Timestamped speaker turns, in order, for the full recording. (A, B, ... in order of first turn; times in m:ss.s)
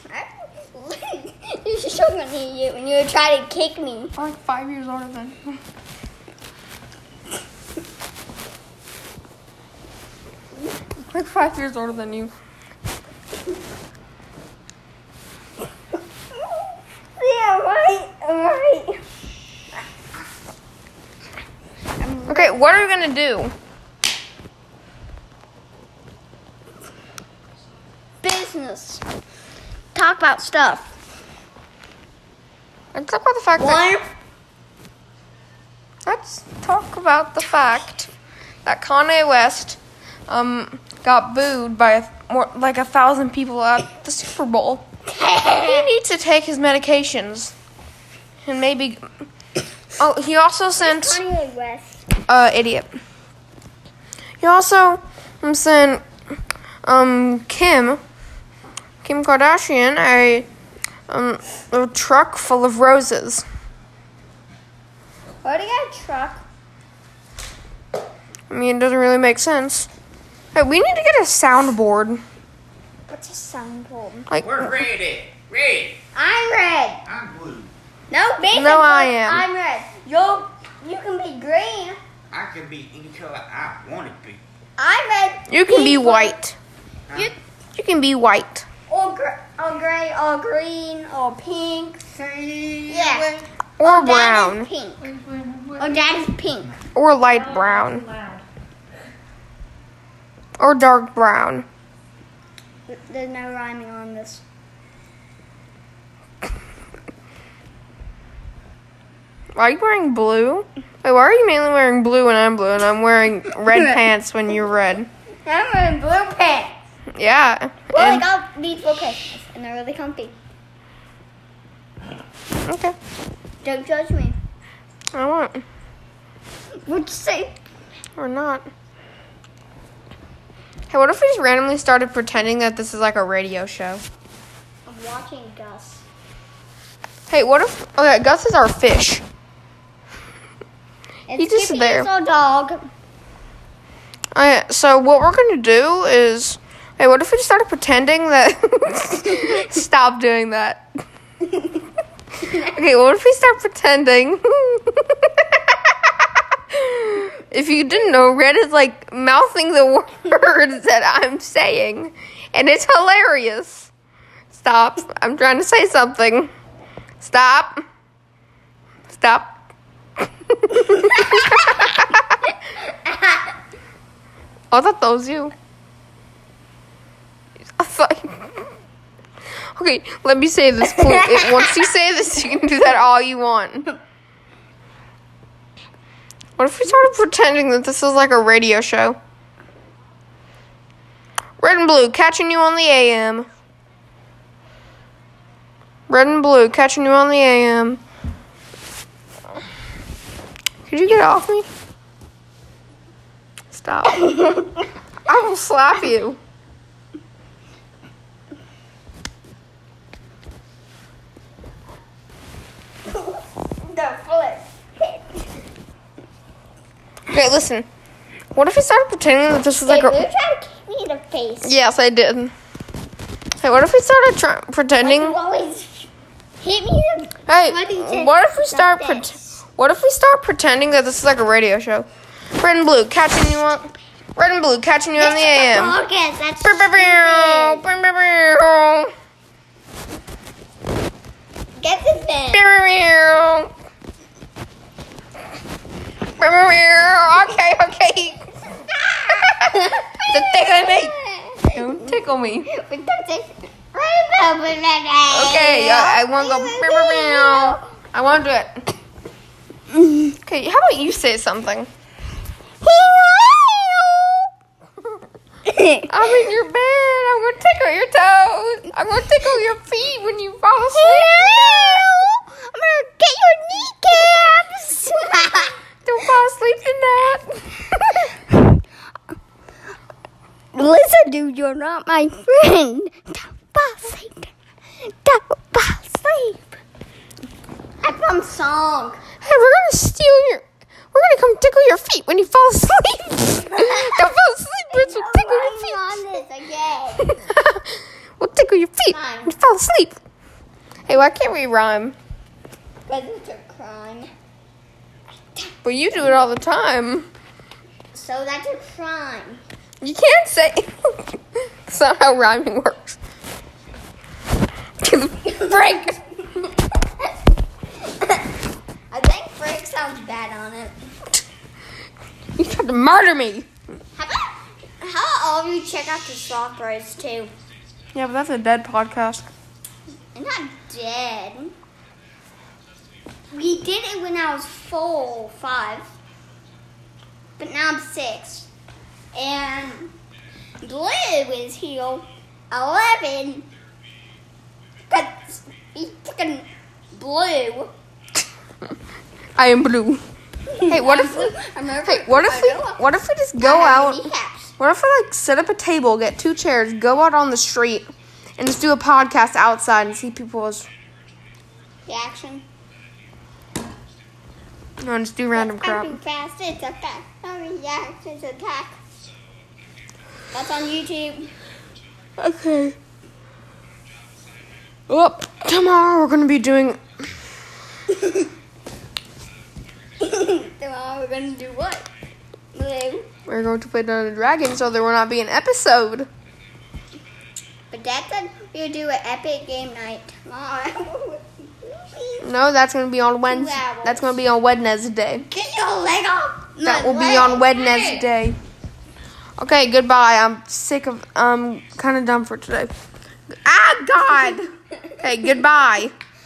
0:00.1-0:04.1 A
0:04.1-0:05.6 B
0:11.0-0:12.3 B
0:17.2-0:19.0 A
0:22.0-0:22.6 A
0:22.3-0:23.5 B
0:28.2-0:29.0 A
0:29.9-0:30.9 A
0:32.9-0:33.8 B
0:33.6-0:34.1 A
0:36.0-0:38.1 B
0:38.6-0:44.8 B
0:45.1-0:45.9 A
0:45.6-0:47.5 B
0:48.4-0:49.0 B
0:50.0-0:51.2 B
0:50.8-0:52.0 A
0:52.2-0:52.9 B
0:54.4-0:56.0 B
0:56.8-0:58.0 B
0:59.0-1:00.5 B
1:01.1-1:03.4 B
1:05.4-1:06.4 A
1:08.5-1:09.9 B
1:10.5-1:12.2 B
1:13.1-1:14.3 A
1:14.3-1:14.7 B
1:14.4-1:16.0 C
1:16.1-1:17.0 A
1:17.1-1:17.7 C
1:18.1-1:22.0 A
1:18.5-1:19.4 B
1:22.3-1:24.4 C
1:24.8-1:26.3 A
1:25.5-1:26.6 B
1:27.7-1:28.6 B
1:28.9-1:35.1 A
1:33.8-1:34.7 B
1:35.0-1:35.9 D
1:35.8-1:36.7 A
1:36.9-1:38.0 B
1:37.2-1:38.4 D
1:40.6-1:41.6 B
1:42.9-1:44.4 A
1:49.6-1:55.1 B
1:55.4-1:56.8 A
1:57.1-1:58.2 B
1:57.9-2:00.3 A
2:02.6-2:03.0 B
2:03.6-2:04.4 A
2:05.1-2:05.6 B
2:06.8-2:07.6 A
2:08.2-2:08.7 B
2:10.9-2:14.0 B
2:14.8-2:16.0 A
2:17.3-2:19.2 B
2:21.3-2:22.9 A
2:21.4-2:22.1 B
2:24.3-2:30.8 B
2:32.5-2:35.9 B
2:36.7-2:43.9 B
2:44.5-2:46.5 B
2:47.2-2:47.8 B
2:49.1-2:49.5 B
2:50.4-2:52.4 B
2:51.2-2:51.8 A
2:54.7-2:55.5 B
2:57.8-2:58.6 B
2:59.7-3:03.9 B
3:00.9-3:01.8 A
3:06.6-3:09.2 B
3:11.6-3:13.5 B
3:16.1-3:18.0 B
3:20.9-3:21.7 B
3:23.7-3:24.4 B
3:24.2-3:24.7 A
3:25.2-3:26.4 B
3:33.8-3:35.4 A
3:37.3-3:37.9 B
3:38.5-3:40.3 B
3:39.8-3:41.7 A
3:41.6-3:42.5 B
3:43.6-3:45.4 B
3:45.0-3:46.1 A
3:46.6-3:49.5 A
3:47.5-3:52.1 B
3:52.6-3:56.0 B
3:55.2-3:57.8 A
3:56.6-3:59.1 B
4:01.8-4:02.6 A
4:02.5-4:03.7 B
4:06.4-4:08.4 B
4:09.0-4:11.1 B
4:09.6-4:12.1 A
4:11.7-4:12.7 B
4:12.7-4:17.8 A
4:15.3-4:18.8 B
4:20.3-4:21.9 B
4:22.8-4:24.5 A
4:25.7-4:26.1 A
4:26.1-4:32.0 B
4:30.9-4:35.8 A
4:36.0-4:37.6 B
4:38.0-4:38.6 A
4:40.7-4:44.5 A
4:45.0-4:46.8 A
4:48.0-4:49.2 A
4:49.4-4:56.1 B
4:53.6-4:54.3 A
4:54.9-4:57.4 A
4:57.2-5:00.2 B
4:59.1-4:59.5 A
5:01.1-5:02.2 B
5:03.1-5:04.3 A
5:05.8-5:07.3 B
5:08.1-5:09.6 A
5:10.0-5:13.2 B
5:15.0-5:15.8 B
5:15.4-5:16.7 A
5:18.0-5:18.4 A
5:19.1-5:20.9 A
5:22.5-5:23.7 B
5:24.2-5:27.5 A
5:28.1-5:29.5 B
5:30.3-5:31.7 A
5:33.5-5:36.1 A
5:37.6-5:38.7 A
5:39.3-5:40.1 A
5:40.8-5:43.7 A
5:45.1-5:47.9 A
5:49.6-5:50.2 B
5:50.7-5:53.0 A
5:50.9-6:00.9 B
5:53.6-5:54.7 A
6:02.0-6:02.6 A
6:05.0-6:06.2 B
6:05.5-6:09.0 A
6:10.5-6:11.5 A
6:12.4-6:13.0 B
6:15.1-6:17.0 B
6:18.1-6:18.4 A
6:20.2-6:22.1 A
6:22.7-6:23.3 A
6:23.5-6:26.3 B
6:27.9-6:32.5 A
6:32.4-6:35.5 B
6:33.5-6:34.4 A
6:35.5-6:38.2 A
6:36.8-6:38.6 B
6:39.6-6:42.9 B
6:43.6-6:44.7 B
6:45.2-6:46.1 B